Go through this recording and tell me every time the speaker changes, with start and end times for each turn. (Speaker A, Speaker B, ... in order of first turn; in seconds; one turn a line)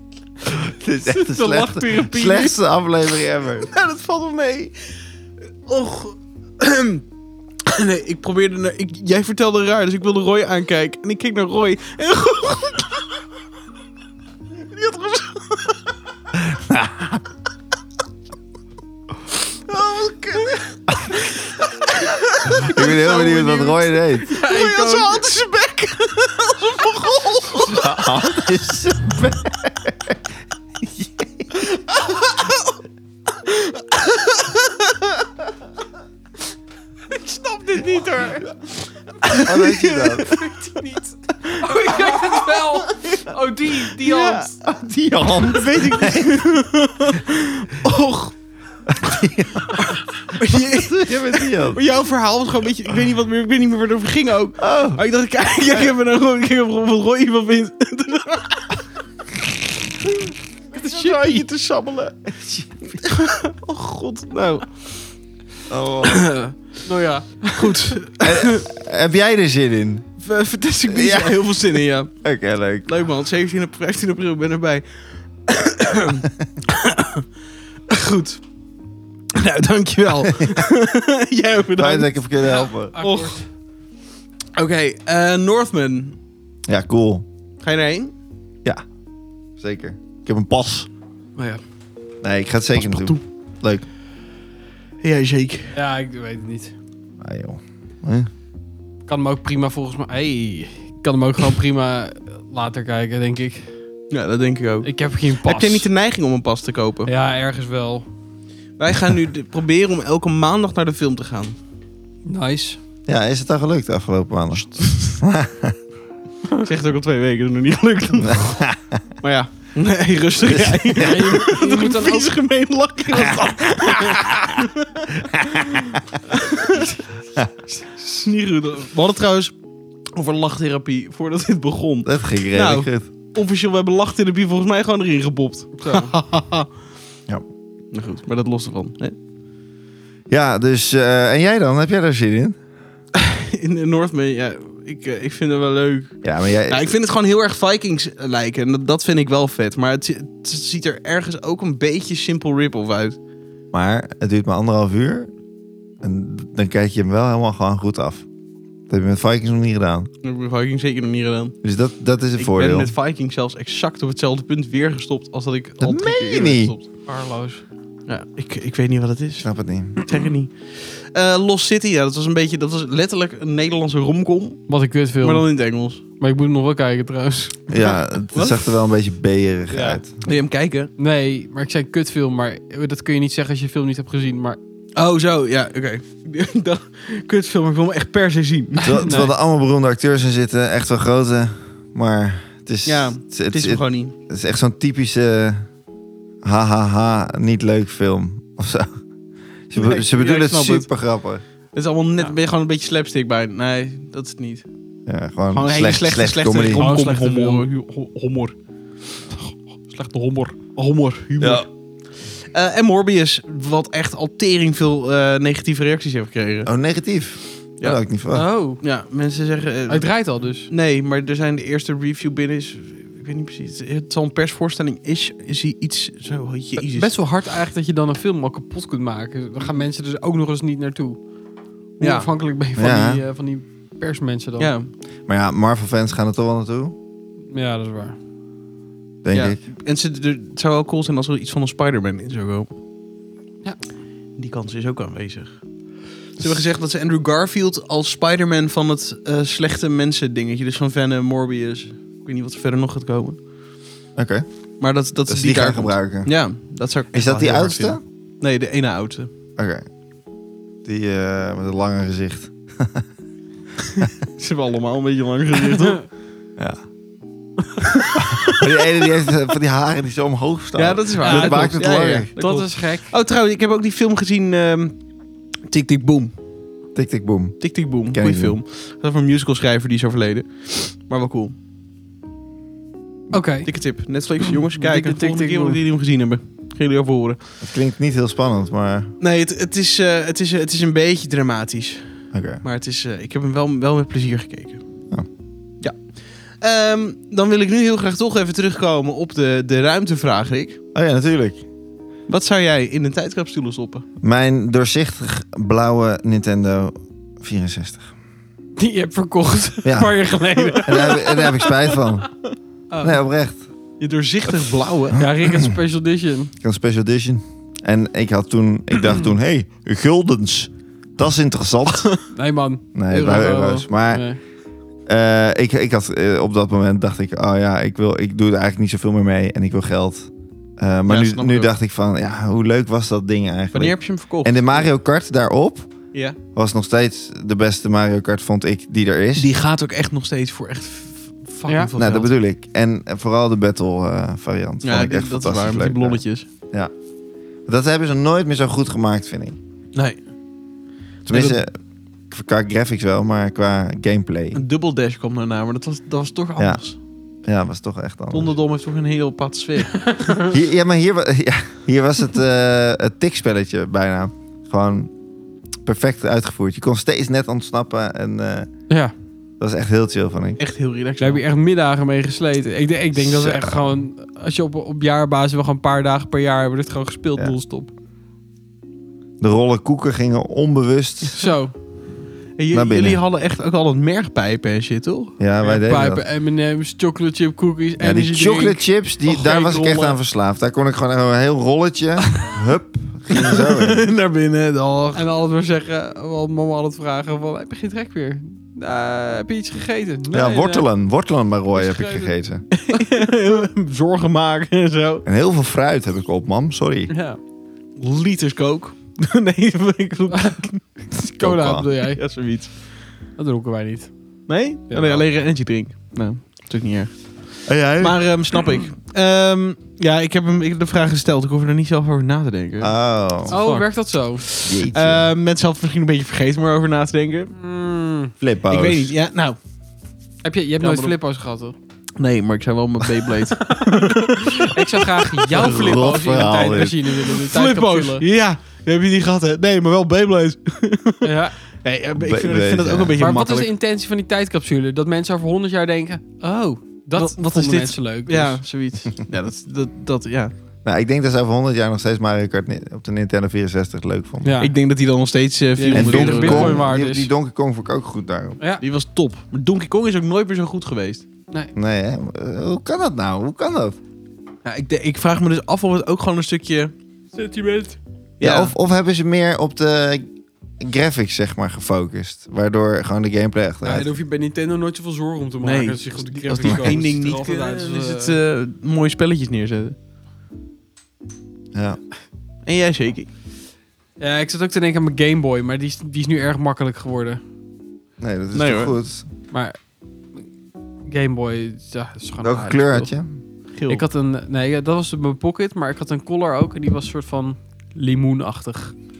Speaker A: 0.5-3.7
Speaker B: 1.0-2.6
Speaker C: 3.6-4.7
Speaker C: 5.7-7.0
Speaker C: 7.6-13.1
Speaker C: 14.6-15.8
Speaker A: 16.3-17.2
Speaker C: 19.7-23.4
Speaker B: 22.6-25.3
Speaker A: 22.6-24.3
Speaker C: 24.3-28.2
Speaker A: 27.6-30.1
Speaker A: 30.8-31.4
Speaker C: 31.6-32.8
Speaker C: 33.3-35.3
Speaker C: 37.1-40.6
Speaker A: 39.4-40.3
Speaker B: 40.2-44.5
Speaker C: 41.4-43.8
Speaker A: 44.0-46.4
Speaker C: 45.3-48.4
Speaker A: 48.9-51.8
Speaker C: 50.3-58.8
Speaker A: 54.6-55.0
Speaker C: 60.7-62.2
Speaker A: 60.8-61.4
Speaker A: 62.3-63.0
Speaker C: 63.0-64.7
Speaker A: 65.7-66.3
Speaker C: 66.0-66.5
Speaker B: 66.8-68.0
Speaker C: 67.5-68.7
Speaker A: 68.2-70.0
Speaker C: 70.2-72.1
Speaker A: 70.9-72.9
Speaker C: 72.8-74.8
Speaker C: 75.5-77.2
Speaker C: 77.9-78.4
Speaker C: 79.3-82.2
Speaker A: 81.8-82.9
Speaker B: 82.4-83.5
Speaker C: 83.0-83.4
Speaker C: 84.5-86.2
Speaker A: 86.7-87.2
Speaker C: 87.6-88.1
Speaker A: 89.6-90.9
Speaker B: 91.3-91.6
Speaker A: 92.2-93.8
Speaker C: 92.8-93.2
Speaker C: 95.0-95.8
Speaker B: 95.7-96.7
Speaker A: 97.2-98.3
Speaker B: 99.1-103.7
Speaker C: 104.1-104.9
Speaker B: 104.8-105.9
Speaker C: 105.4-107.1
Speaker B: 107.0-108.0
Speaker C: 108.8-111.5
Speaker B: 112.2-112.8
Speaker A: 113.1-115.8
Speaker C: 114.8-115.1
Speaker C: 116.6-118.6
Speaker A: 118.2-119.0
Speaker C: 119.2-126.9
Speaker A: 120.4-121.3
Speaker B: 120.9-122.3
Speaker A: 125.2-126.0
Speaker B: 127.7-128.2
Speaker C: 128.2-129.6
Speaker C: 130.1-136.7
Speaker A: 132.0-133.1
Speaker B: 135.8-136.1
Speaker C: 137.9-139.1
Speaker A: 140.3-142.6
Speaker C: 143.1-153.2
Speaker A: 146.2-146.9
Speaker A: 153.7-155.3
Speaker A: 156.0-158.2
Speaker A: 158.9-160.1
Speaker C: 160.2-161.6
Speaker A: 161.6-162.9
Speaker C: 162.4-166.9
Speaker A: 165.8-166.7
Speaker B: 167.1-167.6
Speaker C: 168.1-174.6
Speaker A: 169.4-170.0
Speaker B: 174.7-175.5
Speaker C: 175.2-176.0
Speaker B: 176.2-177.8
Speaker A: 177.7-180.1
Speaker C: 177.8-178.6
Speaker C: 179.7-180.9
Speaker B: 181.0-184.6
Speaker C: 184.9-189.3
Speaker B: 188.8-189.3
Speaker A: 188.8-195.7
Speaker C: 192.8-194.1
Speaker A: 196.4-199.0
Speaker A: 199.7-201.4
Speaker C: 199.7-200.9
Speaker C: 201.7-204.7
Speaker A: 205.1-206.8
Speaker C: 205.5-208.5
Speaker B: 206.7-207.7
Speaker B: 209.9-210.6
Speaker C: 210.7-211.7
Speaker A: 211.4-211.6
Speaker C: 212.2-216.7
Speaker A: 216.7-218.4
Speaker B: 218.3-218.8
Speaker C: 218.8-220.1
Speaker B: 219.9-220.7
Speaker C: 220.7-227.1
Speaker B: 226.8-231.2
Speaker B: 232.0-234.7
Speaker C: 232.0-232.3
Speaker A: 232.8-233.2
Speaker C: 234.6-234.9
Speaker A: 235.3-236.9
Speaker B: 237.5-238.2
Speaker A: 239.2-239.6
Speaker C: 239.3-242.7
Speaker C: 244.4-245.6
Speaker C: 246.3-253.4
Speaker A: 254.2-254.4
Speaker C: 254.8-259.3
Speaker A: 255.3-256.4
Speaker A: 257.1-258.0
Speaker A: 259.6-259.8
Speaker A: 260.8-263.1
Speaker C: 263.9-266.0
Speaker C: 267.9-268.6
Speaker A: 268.3-272.3
Speaker C: 270.8-275.0
Speaker B: 271.2-273.1
Speaker C: 275.7-276.4
Speaker A: 276.9-278.6
Speaker C: 277.6-281.5
Speaker B: 283.3-283.7
Speaker C: 283.6-287.4
Speaker B: 284.4-285.8
Speaker A: 287.6-289.1
Speaker C: 289.2-294.8
Speaker A: 292.3-292.6
Speaker C: 295.8-300.8
Speaker A: 300.9-301.6
Speaker C: 302.3-304.0
Speaker A: 304.2-308.1
Speaker B: 308.8-311.5
Speaker A: 309.8-310.1
Speaker C: 310.6-311.4
Speaker A: 310.8-312.3
Speaker B: 312.9-313.1
Speaker A: 313.0-313.6
Speaker C: 314.0-315.3
Speaker B: 315.1-316.5
Speaker A: 315.4-315.8
Speaker A: 316.6-322.1
Speaker B: 322.3-324.4
Speaker A: 322.9-324.2
Speaker A: 325.1-335.9
Speaker C: 331.1-331.7
Speaker C: 333.7-334.9
Speaker C: 336.1-336.4
Speaker A: 336.5-339.5
Speaker C: 339.4-342.3
Speaker A: 341.9-346.9
Speaker C: 344.8-346.4
Speaker A: 347.7-349.6
Speaker C: 349.9-350.2
Speaker C: 351.2-351.6
Speaker A: 351.2-351.7
Speaker A: 352.3-354.6
Speaker C: 354.5-357.0
Speaker A: 357.4-358.5
Speaker C: 358.3-360.1
Speaker B: 360.1-360.4
Speaker A: 360.4-365.1
Speaker A: 365.8-368.7
Speaker A: 369.6-370.6
Speaker C: 370.6-371.4
Speaker B: 371.2-377.9
Speaker A: 373.1-374.0
Speaker A: 379.4-381.4
Speaker B: 381.3-381.7
Speaker C: 382.6-385.4
Speaker A: 382.7-383.2
Speaker A: 385.4-386.2
Speaker B: 385.6-390.2
Speaker A: 388.0-394.0
Speaker C: 393.3-395.2
Speaker B: 395.1-400.9
Speaker A: 400.3-402.7
Speaker B: 401.7-403.1
Speaker C: 402.8-405.2
Speaker A: 405.2-407.1
Speaker B: 407.1-407.4
Speaker C: 408.0-410.8
Speaker B: 410.3-412.2
Speaker A: 411.3-411.9
Speaker C: 412.1-412.7
Speaker B: 413.4-414.1
Speaker C: 414.5-422.9
Speaker B: 414.9-415.2
Speaker A: 417.6-418.2
Speaker A: 422.8-423.5
Speaker C: 423.5-427.5
Speaker B: 423.5-424.4
Speaker A: 424.6-425.3
Speaker B: 427.6-428.3
Speaker A: 428.4-429.1
Speaker C: 428.7-429.6
Speaker B: 430.4-431.7
Speaker C: 430.8-431.1
Speaker C: 432.2-435.4
Speaker B: 433.6-438.2
Speaker A: 435.5-437.1
Speaker C: 437.4-443.7
Speaker B: 441.2-441.6
Speaker A: 442.2-443.3
Speaker B: 443.2-448.6
Speaker C: 447.1-450.5
Speaker A: 450.8-454.5
Speaker B: 454.4-454.7
Speaker C: 454.6-456.8
Speaker B: 455.8-457.3
Speaker A: 455.9-458.6
Speaker C: 458.8-461.2
Speaker A: 461.7-464.0
Speaker C: 464.6-466.9
Speaker B: 467.3-468.0
Speaker C: 468.4-468.8
Speaker A: 468.4-474.1
Speaker B: 473.8-478.4
Speaker C: 475.6-479.9
Speaker A: 476.6-477.0
Speaker A: 481.7-482.0
Speaker C: 482.6-483.3
Speaker B: 484.2-487.4
Speaker A: 488.2-489.2
Speaker C: 488.5-488.9
Speaker B: 489.5-489.8
Speaker B: 491.1-493.1
Speaker A: 492.4-493.3
Speaker C: 493.8-494.0
Speaker B: 493.9-498.9